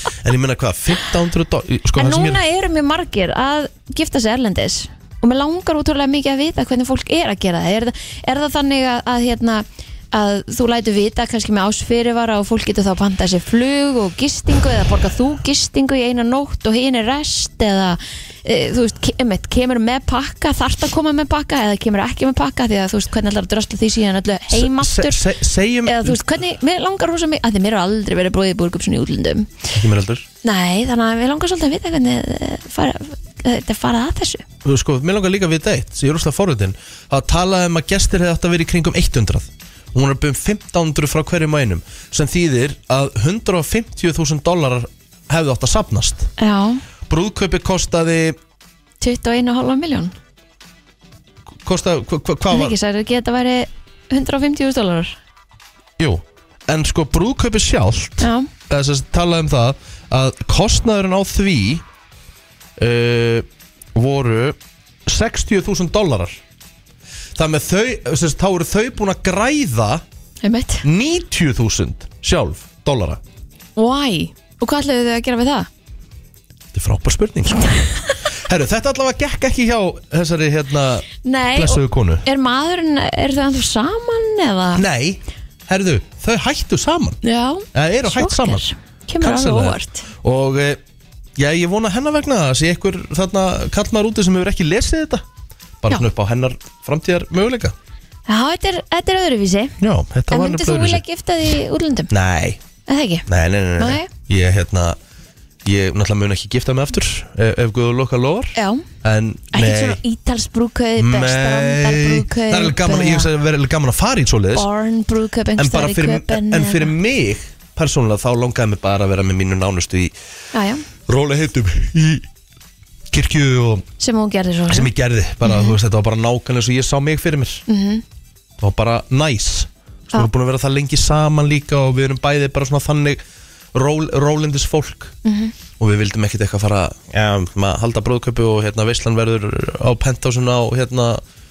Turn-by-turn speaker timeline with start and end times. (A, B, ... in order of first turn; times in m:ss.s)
0:00.2-0:02.4 A
0:01.9-0:25.2 B
0:24.5-0:26.2 A
0:25.8-0:29.7 B
0:29.7-0:30.2 A
0:30.4-0:34.4 B
0:34.6-0:46.3 A
0:46.4-0:46.8 B
0:47.1-0:48.4 A
0:49.0-0:50.1 B
0:51.6-0:52.8 A
0:52.5-0:55.2 B
0:56.0-1:01.8 A
0:58.2-0:58.5 B
1:02.8-1:06.4 A
1:07.4-1:10.0 A
1:10.4-1:10.8 B
1:10.8-1:13.2 A
1:13.8-1:15.7 B
1:16.7-1:17.7 A
1:17.6-1:18.2 B
1:18.3-1:22.2 A
1:21.2-1:24.8 B
1:24.8-1:27.2 A
1:27.2-1:30.1 B
1:27.7-1:28.6 A
1:29.2-1:30.8 A
1:31.4-1:35.2 A
1:35.8-1:37.7 A
1:38.3-1:39.8 B
1:39.8-1:41.0 A
1:40.3-1:42.1 B
1:42.1-1:42.6 A
1:42.9-1:44.1 B
1:43.3-1:45.0 A
1:45.6-1:50.0 A
1:48.5-1:48.8 B
1:49.5-1:53.3 B
1:51.0-1:54.7 A
1:54.5-1:56.9 B
1:55.6-2:00.1 A
2:00.5-2:00.8 B
2:01.0-2:02.3 A
2:03.1-2:03.8 A
2:04.0-2:04.9 B
2:04.7-2:07.6 A
2:05.4-2:05.8 B
2:07.7-2:08.0 B
2:08.6-2:13.2 A
2:13.7-2:15.1 A
2:15.2-2:15.5 B
2:15.8-2:21.2 A